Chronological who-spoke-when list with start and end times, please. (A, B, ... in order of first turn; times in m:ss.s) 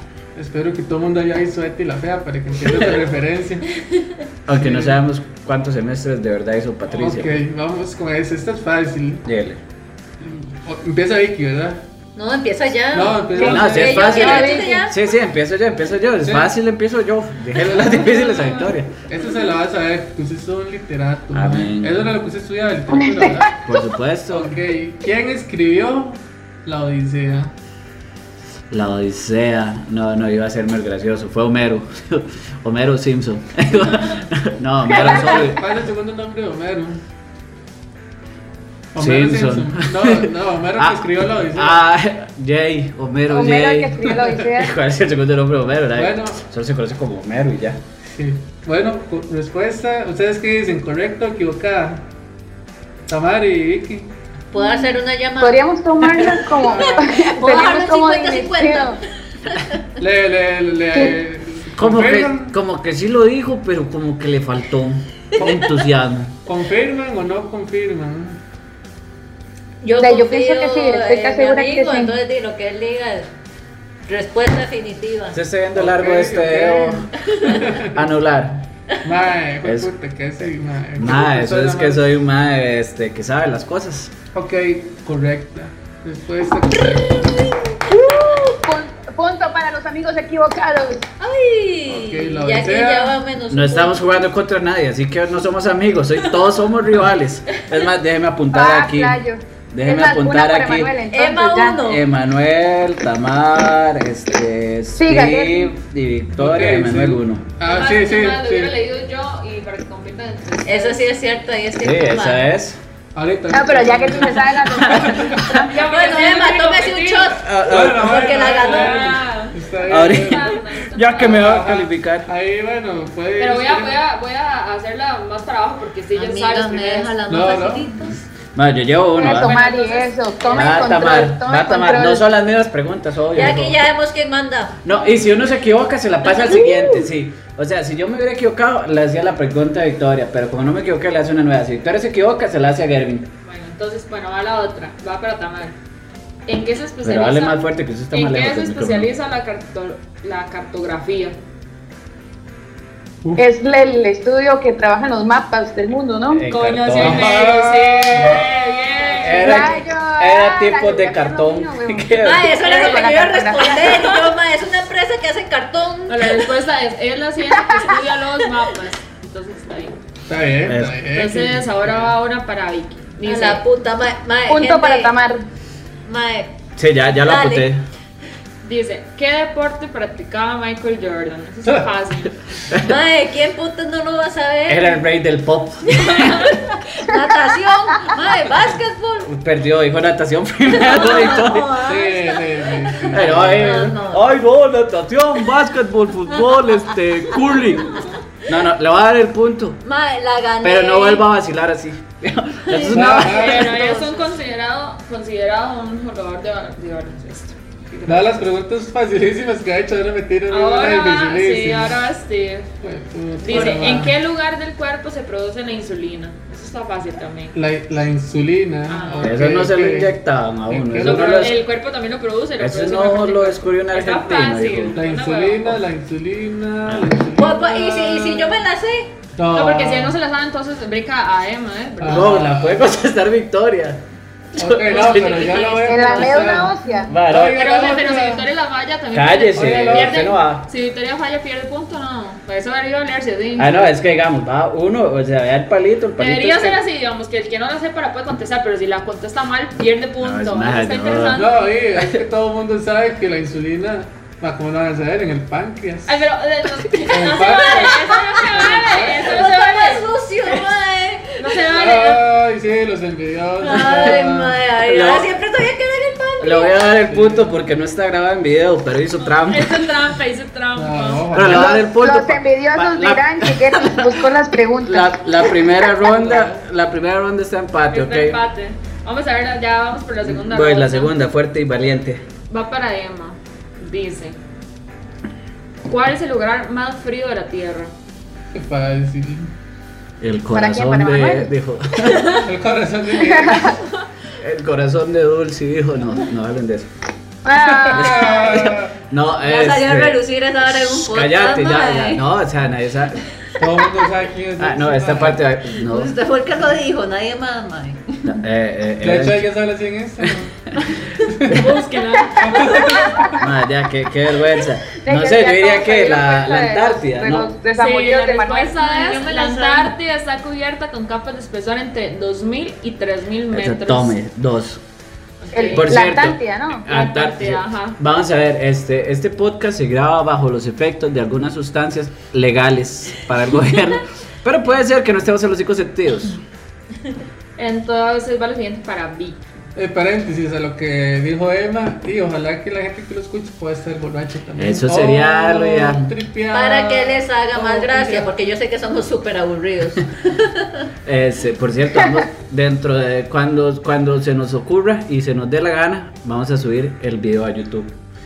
0:00.3-0:03.6 A
0:03.8-0:04.1 B
0:04.5-0:07.3 C
0:04.5-0:05.0 A
0:06.9-0:09.2 A
0:09.2-0:09.6 C
0:10.2-0:11.8 A
0:12.2-0:15.0 B
0:12.9-0:14.5 A
0:13.4-0:14.8 D
0:13.4-0:19.0 C
0:16.2-0:16.5 A
0:19.1-0:23.6 A
0:21.3-0:22.1 C
0:23.0-0:23.4 D
0:23.6-0:24.6 C
0:24.3-0:27.5 A
0:28.7-0:35.6 C
0:34.9-0:37.0 A
0:38.9-0:41.8 A
0:39.0-0:47.8 C
0:43.3-0:44.7 D
0:45.9-0:46.4 A
0:48.0-0:52.0 A
0:53.1-0:54.1 A
0:54.5-0:59.8 B
0:54.6-0:54.8 D
0:55.4-0:59.0 D
0:56.2-0:57.1 A
1:00.0-1:02.5 A
1:01.8-1:06.4 C
1:05.4-1:05.7 A
1:06.4-1:08.4 A
1:09.8-1:13.3 B
1:10.0-1:12.1 D
1:14.0-1:15.4 B
1:15.3-1:17.1 C
1:15.7-1:18.0 A
1:17.3-1:17.6 B
1:17.8-1:18.6 C
1:19.0-1:22.1 A
1:19.6-1:19.9 C
1:21.0-1:24.1 C
1:24.3-1:27.5 A
1:27.2-1:27.6 B
1:27.9-1:31.0 D
1:31.2-1:34.0 B
1:31.9-1:33.2 A
1:33.5-1:39.2 C
1:38.5-1:41.8 D
1:39.7-1:41.0 C
1:41.1-1:42.0 B
1:41.8-1:47.4 C
1:45.0-1:45.7 D
1:46.4-1:48.7 A
1:47.6-1:51.0 E
1:50.6-1:52.4 B
1:51.8-1:52.8 C
1:53.1-1:55.6 A
1:53.5-1:55.4 D
1:54.8-1:55.6 C
1:55.5-1:57.4 E
1:55.6-1:59.2 B
1:57.4-1:58.3 C
1:57.6-2:00.5 A
1:58.5-2:01.5 E
1:59.9-2:02.3 C
2:01.1-2:04.0 A
2:03.4-2:07.2 E
2:06.1-2:08.2 B
2:07.3-2:08.2 A
2:08.5-2:09.5 C
2:09.2-2:12.2 D
2:09.2-2:10.9 E
2:10.5-2:13.8 C
2:13.3-2:14.8 B
2:14.8-2:23.3 C
2:16.3-2:16.9 B
2:23.4-2:25.7 E
2:26.5-2:31.4 E
2:27.0-2:29.1 C
2:33.4-2:36.4 D
2:36.3-2:37.5 C
2:36.5-2:39.8 E
2:37.0-2:38.6 A
2:39.2-2:42.5 C
2:39.2-2:44.1 D
2:42.2-2:46.5 B
2:46.1-2:50.0 E
2:50.3-2:52.1 A
2:50.6-2:51.0 C
2:51.1-2:53.6 E
2:53.2-2:55.1 B
2:54.5-2:55.4 D
2:56.0-2:56.5 B
2:56.8-2:57.8 C
2:57.2-2:57.7 B
2:58.6-3:02.4 E
3:02.8-3:05.0 B
3:04.7-3:06.5 C
3:05.9-3:09.3 B
3:06.0-3:06.6 E
3:09.2-3:11.8 C
3:10.7-3:14.2 B
3:11.8-3:13.9 A
3:13.1-3:19.8 C
3:19.8-3:21.3 B
3:20.6-3:23.5 C
3:22.7-3:24.3 B
3:22.9-3:23.7 A
3:23.1-3:28.4 E
3:28.0-3:32.0 A
3:30.5-3:32.7 E
3:32.8-3:34.1 A
3:33.4-3:37.5 E
3:33.5-3:34.0 B
3:37.5-3:40.1 A
3:38.9-3:39.4 E
3:39.2-3:41.6 C
3:40.7-3:41.5 A
3:41.0-3:45.8 E
3:42.6-3:45.0 C
3:44.9-3:48.6 A
3:47.3-3:49.1 B
3:49.4-3:50.2 A
3:49.5-3:52.3 E
3:52.0-3:52.8 A
3:52.1-3:54.0 C
3:54.6-3:55.6 C
3:54.6-3:58.4 A
3:54.9-3:56.2 E
3:55.5-3:56.3 B
3:55.8-3:57.1 D
3:57.1-3:57.6 C
3:57.4-4:04.0 E
3:59.1-4:00.6 C
3:59.5-4:00.3 A
4:03.6-4:06.8 C
4:06.2-4:11.7 E
4:10.2-4:11.5 C
4:11.3-4:16.1 A
4:16.1-4:20.1 E
4:17.1-4:19.4 A
4:17.2-4:21.6 B
4:21.4-4:22.2 E
4:21.7-4:24.6 A
4:23.6-4:26.8 B
4:24.8-4:25.3 C
4:26.4-4:29.9 C
4:27.1-4:27.4 A
4:29.2-4:31.4 E
4:30.7-4:31.8 A
4:31.3-4:34.2 C
4:31.4-4:35.2 D
4:34.8-4:38.4 C
4:36.0-4:36.6 A
4:37.9-4:41.1 E
4:40.2-4:42.2 C
4:42.5-4:44.4 E
4:45.9-4:47.9 E
4:48.5-4:49.5 A
4:50.2-4:52.4 C
4:50.5-4:51.5 D
4:52.4-4:53.8 A
4:53.3-4:53.7 D
4:54.4-4:56.9 C
4:57.4-4:58.7 D
4:57.6-4:58.9 A
4:57.9-5:03.2 C
4:59.4-5:02.2 B
5:03.6-5:05.4 A
5:04.6-5:06.1 C
5:05.8-5:08.2 B
5:08.2-5:09.4 C
5:09.0-5:10.5 A
5:11.0-5:13.3 E
5:11.2-5:11.7 A
5:12.4-5:13.4 A
5:12.5-5:13.2 B
5:13.4-5:17.5 C
5:15.0-5:18.7 D
5:17.8-5:24.2 E
5:18.8-5:19.9 B
5:23.5-5:24.8 C
5:25.4-5:26.0 E
5:25.5-5:26.8 D
5:25.7-5:36.4 C
5:26.9-5:28.0 E
5:37.6-5:39.4 E
5:39.8-5:48.3 A
5:44.6-5:46.1 C
5:46.5-5:50.8 B
5:51.0-5:57.9 C